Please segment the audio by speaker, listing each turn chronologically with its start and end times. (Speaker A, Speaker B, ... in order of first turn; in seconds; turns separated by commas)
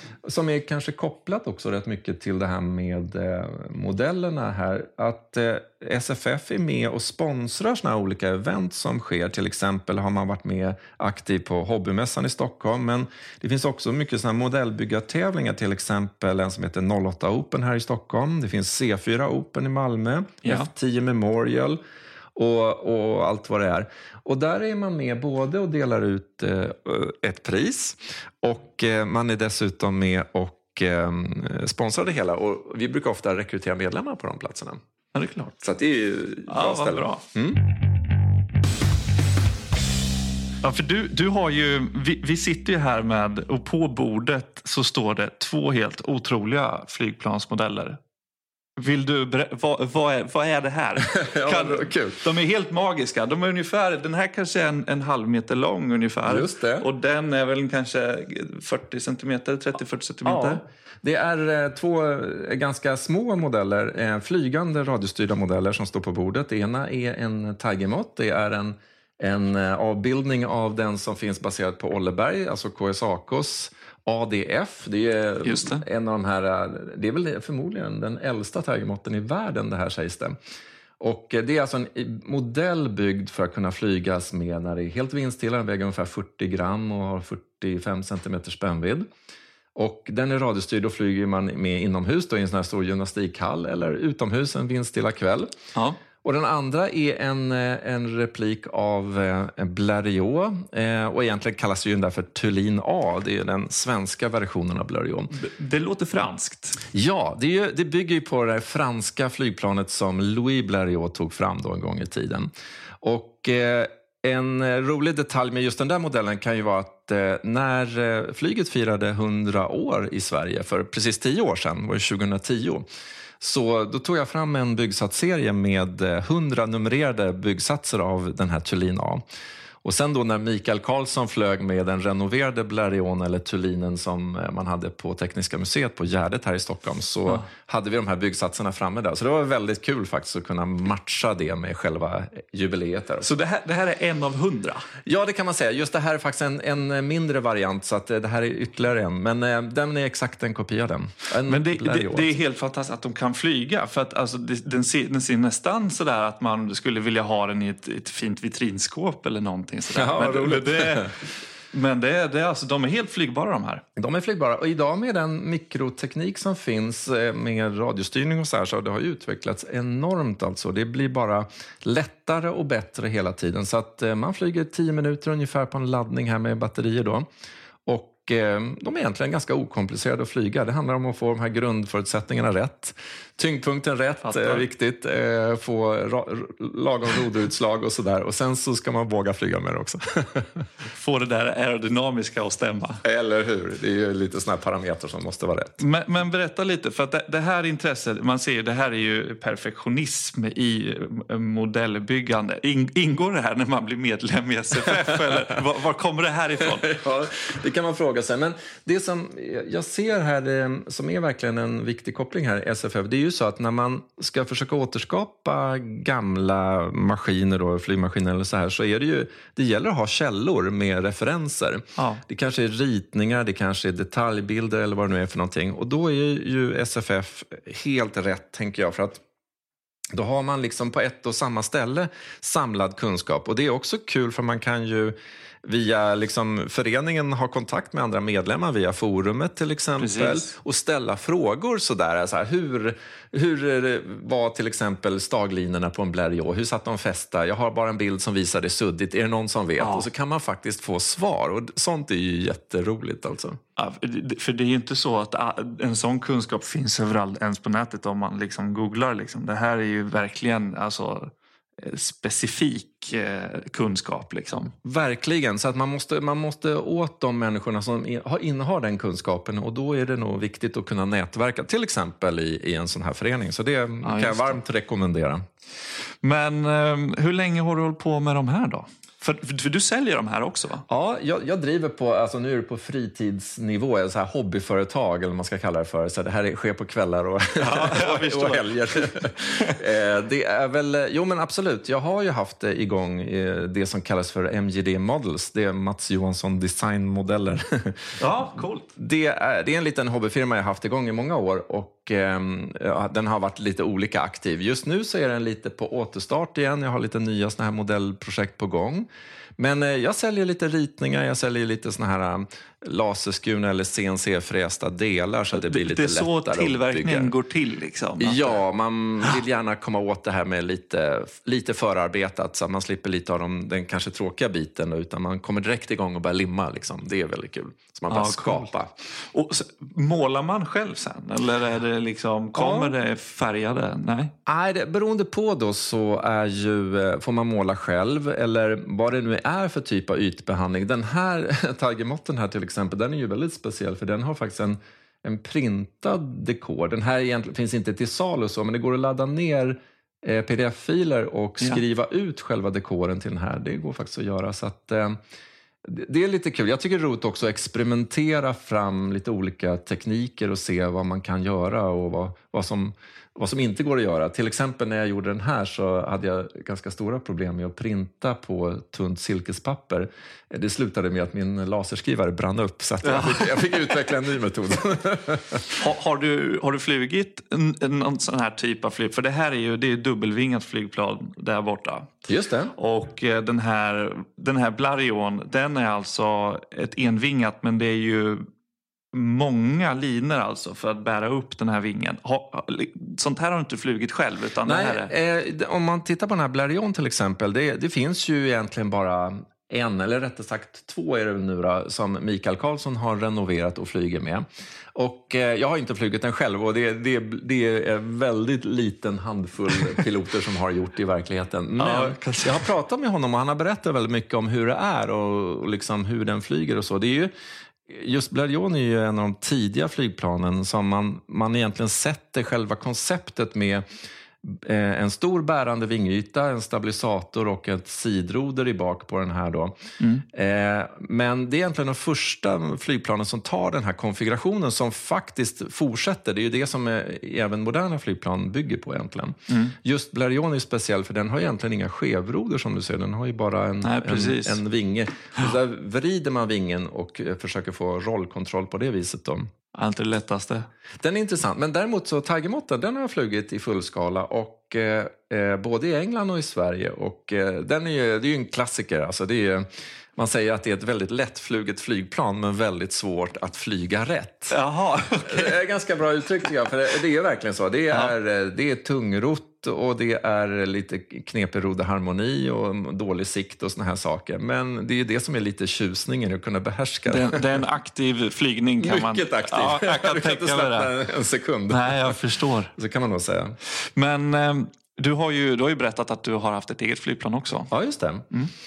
Speaker A: 0.2-21.8, Speaker A: 22.4-34.8, Speaker B: 35.1-35.6, Speaker A: 35.6-37.6, Speaker B: 36.5-37.2, Speaker B: 40.6-48.0, Speaker B: 48.8-60.6, Speaker A: 51.1-52.2, Speaker A: 56.3-56.9, Speaker A: 60.2-80.4, Speaker B: 75.4-75.8, Speaker A: 81.0-89.1, Speaker A: 89.8-95.5, Speaker A: 96.2-105.4, Speaker B: 105.3-106.8, Speaker A: 106.9-112.5, Speaker A: 113.0-122.8, Speaker A: 123.4-129.2, Speaker A: 129.8-143.3, Speaker B: 143.2-144.9, Speaker A: 145.1-152.3, Speaker B: 151.5-161.2, Speaker A: 159.9-161.1, Speaker B: 161.7-163.8, Speaker A: 164.0-177.3, Speaker A: 177.9-190.7, Speaker B: 184.2-184.7, Speaker B: 190.9-193.0, Speaker A: 193.0-195.8, Speaker B: 195.8-206.9, Speaker A: 206.8-229.2, Speaker B: 222.0-222.2, Speaker A: 230.1-253.6, Speaker B: 240.0-240.5, Speaker B: 249.8-250.1, Speaker B: 253.8-264.7, Speaker A: 264.8-275.4, Speaker B: 274.0-274.6, Speaker B: 276.2-280.9, Speaker A: 280.9-298.1, Speaker B: 287.6-289.1, Speaker B: 298.2-298.9, Speaker A: 299.0-309.1, Speaker A: 309.6-317.3, Speaker B: 315.5-318.6, Speaker A: 318.2-328.9, Speaker B: 328.1-328.7, Speaker B: 329.3-334.3, Speaker A: 332.6-332.9, Speaker A: 334.5-355.2, Speaker A: 355.8-375.8, Speaker B: 373.0-373.9, Speaker B: 375.8-382.2, Speaker A: 382.3-382.8, Speaker B: 382.8-388.5, Speaker B: 389.1-395.1, Speaker A: 394.6-417.3, Speaker B: 411.8-412.7, Speaker A: 417.9-423.9, Speaker A: 424.4-429.8, Speaker A: 430.3-449.5, Speaker B: 439.5-439.8, Speaker B: 443.8-444.6, Speaker B: 449.7-450.7, Speaker A: 451.0-464.6, Speaker B: 464.5-465.6, Speaker A: 465.2-477.6, Speaker B: 477.1-480.9, Speaker A: 478.8-482.2, Speaker B: 481.7-482.7, Speaker A: 482.7-483.6, Speaker B: 483.7-487.7, Speaker A: 487.7-488.3